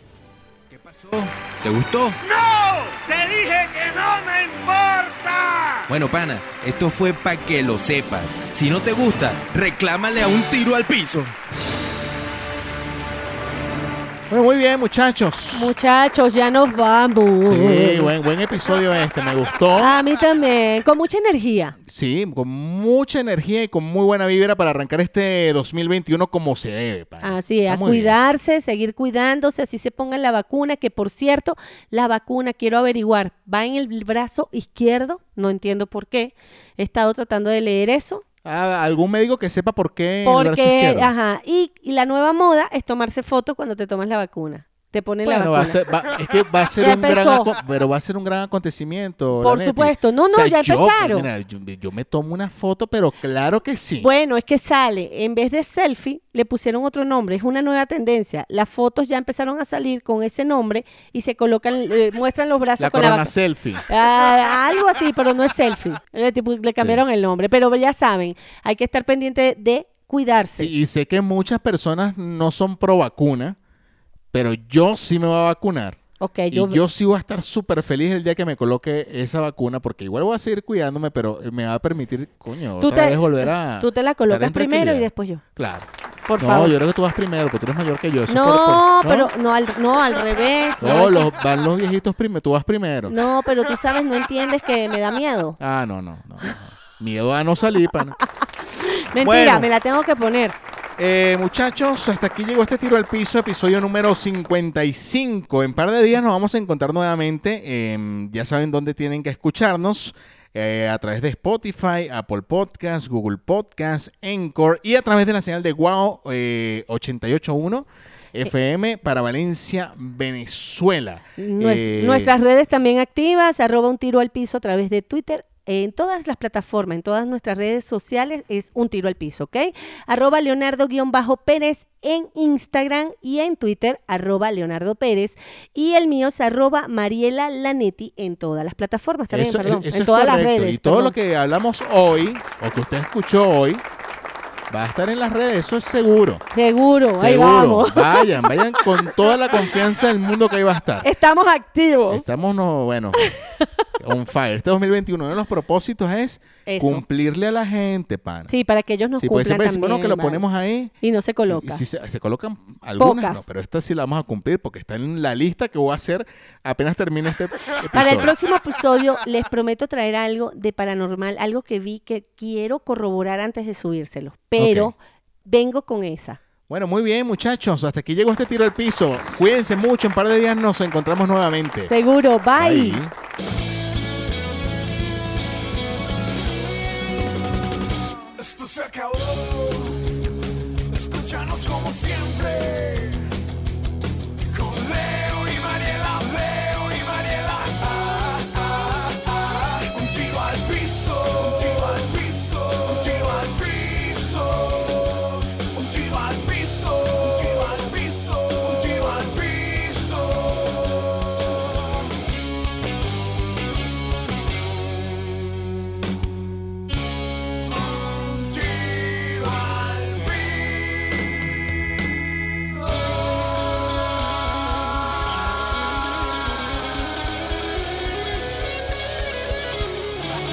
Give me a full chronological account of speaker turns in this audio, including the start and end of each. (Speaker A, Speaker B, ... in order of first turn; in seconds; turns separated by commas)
Speaker A: 0.7-2.2, Speaker B: 2.3-4.2, Speaker A: 5.9-11.3, Speaker C: 14.3-15.7, Speaker D: 15.5-18.1, Speaker C: 17.4-19.9, Speaker D: 19.8-21.8, Speaker C: 21.8-28.1, Speaker D: 27.2-38.2, Speaker C: 38.4-41.1, Speaker D: 40.2-45.8, Speaker C: 45.2-54.1, Speaker D: 46.8-47.5, Speaker D: 49.4-51.3, Speaker D: 54.0-63.3, Speaker C: 62.8-63.8, Speaker D: 63.9-70.7, Speaker C: 70.6-73.6, Speaker C: 74.3-76.0, Speaker D: 76.2-76.8, Speaker C: 76.5-89.3, Speaker D: 82.8-85.4, Speaker D: 86.3-86.7, Speaker D: 88.3-91.3, Speaker C: 90.8-93.1, Speaker D: 93.1-95.6, Speaker C: 95.6-98.2, Speaker D: 98.7-100.5, Speaker C: 99.2-99.7, Speaker C: 101.0-122.3, Speaker D: 121.4-141.1, Speaker C: 139.3-143.8, Speaker C: 144.7-146.4, Speaker D: 146.5-148.5, Speaker C: 147.1-151.1, Speaker D: 151.0-152.3, Speaker C: 152.1-153.3, Speaker D: 153.2-153.7, Speaker C: 154.0-158.5, Speaker D: 156.7-157.0, Speaker D: 158.5-160.4, Speaker C: 159.2-160.9, Speaker D: 161.0-161.8, Speaker C: 161.5-168.3, Speaker D: 163.0-163.4, Speaker D: 167.9-176.4, Speaker C: 174.6-174.9, Speaker C: 176.7-181.9, Speaker D: 181.8-183.0, Speaker C: 182.6-183.1, Speaker B: 188.4-190.0, Speaker B: 190.9-193.3, Speaker B: 194.5-211.1, Speaker B: 217.9-221.0